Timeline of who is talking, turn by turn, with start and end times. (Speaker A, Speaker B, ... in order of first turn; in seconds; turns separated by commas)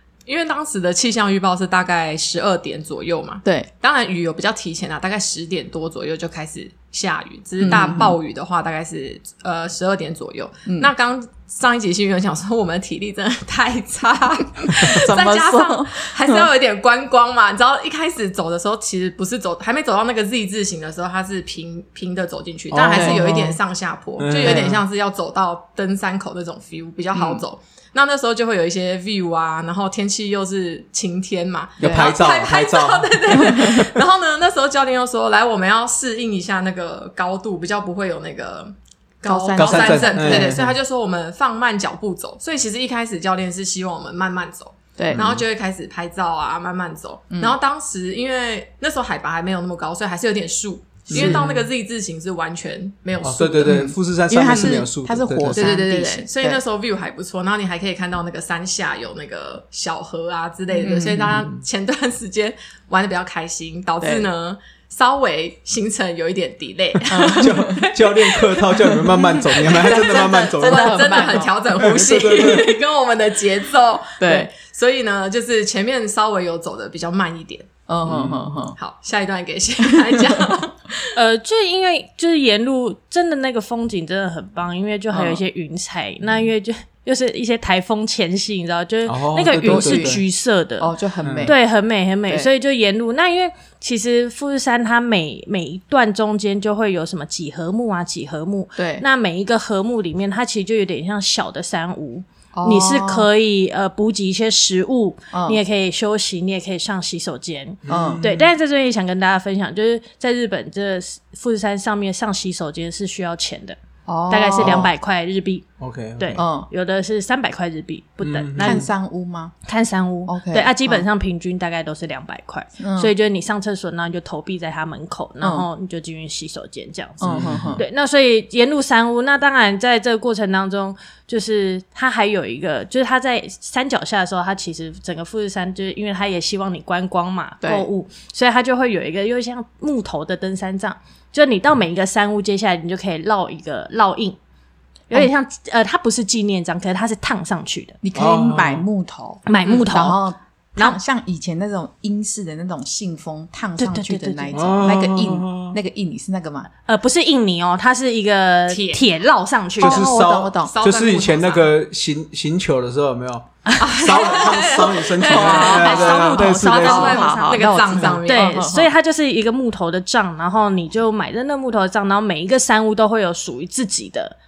Speaker A: 0.3-53.8, Speaker B: 3.4-3.7, Speaker B: 7.6-8.1, Speaker C: 7.6-8.1, Speaker B: 14.8-16.5, Speaker B: 22.7-23.6, Speaker C: 22.8-23.3, Speaker C: 24.2-24.8, Speaker B: 24.4-24.8, Speaker B: 27.1-27.4, Speaker C: 31.8-33.4, Speaker B: 31.8-32.1, Speaker B: 33.4-33.9, Speaker B: 39.2-40.7, Speaker C: 39.5-40.8, Speaker B: 45.0-45.2, Speaker C: 45.1-45.4, Speaker C: 51.1-51.7, Speaker B: 51.1-51.5, Speaker C: 53.2-55.7, Speaker B: 53.6-56.6, Speaker A: 54.5-54.9, Speaker A: 55.5-77.7, Speaker B: 60.8-61.3, Speaker C: 60.9-61.6, Speaker B: 64.0-64.3, Speaker B: 67.1-67.9, Speaker C: 67.4-72.7, Speaker B: 69.6-71.5, Speaker B: 74.2-74.5, Speaker B: 77.9-78.8, Speaker C: 78.1-78.6, Speaker A: 78.8-80.9, Speaker B: 80.1-80.4, Speaker D: 81.2-90.9, Speaker B: 85.1-85.4, Speaker C: 89.1-90.2, Speaker B: 89.5-90.2, Speaker B: 90.8-91.6, Speaker C: 91.2-91.5, Speaker D: 91.4-113.8, Speaker B: 98.8-99.0, Speaker B: 102.5-103.3, Speaker B: 105.3-105.6, Speaker C: 107.8-108.5, Speaker B: 107.9-108.2, Speaker B: 114.1-114.9, Speaker D: 114.3-115.7, Speaker C: 115.8-116.4, Speaker D: 116.2-118.9, Speaker B: 116.3-116.7, Speaker C: 118.2-118.9, Speaker B: 118.6-119.5, Speaker D: 119.7-144.4, Speaker B: 120.3-121.0, Speaker B: 122.8-123.1, Speaker B: 125.4-125.7, Speaker B: 127.2-127.8, Speaker C: 127.2-127.8, Speaker B: 137.6-137.9, Speaker D: 145.1-148.0, Speaker B: 148.0-156.7, Speaker C: 148.2-148.8, Speaker D: 149.5-150.2, Speaker D: 153.8-154.6, Speaker C: 154.5-155.8, Speaker D: 156.9-160.1, Speaker A: 158.7-159.0, Speaker B: 159.8-160.8, Speaker C: 159.8-167.3, Speaker A: 160.6-161.7, Speaker A: 163.8-168.6, Speaker B: 165.3-168.9, Speaker D: 165.3-174.4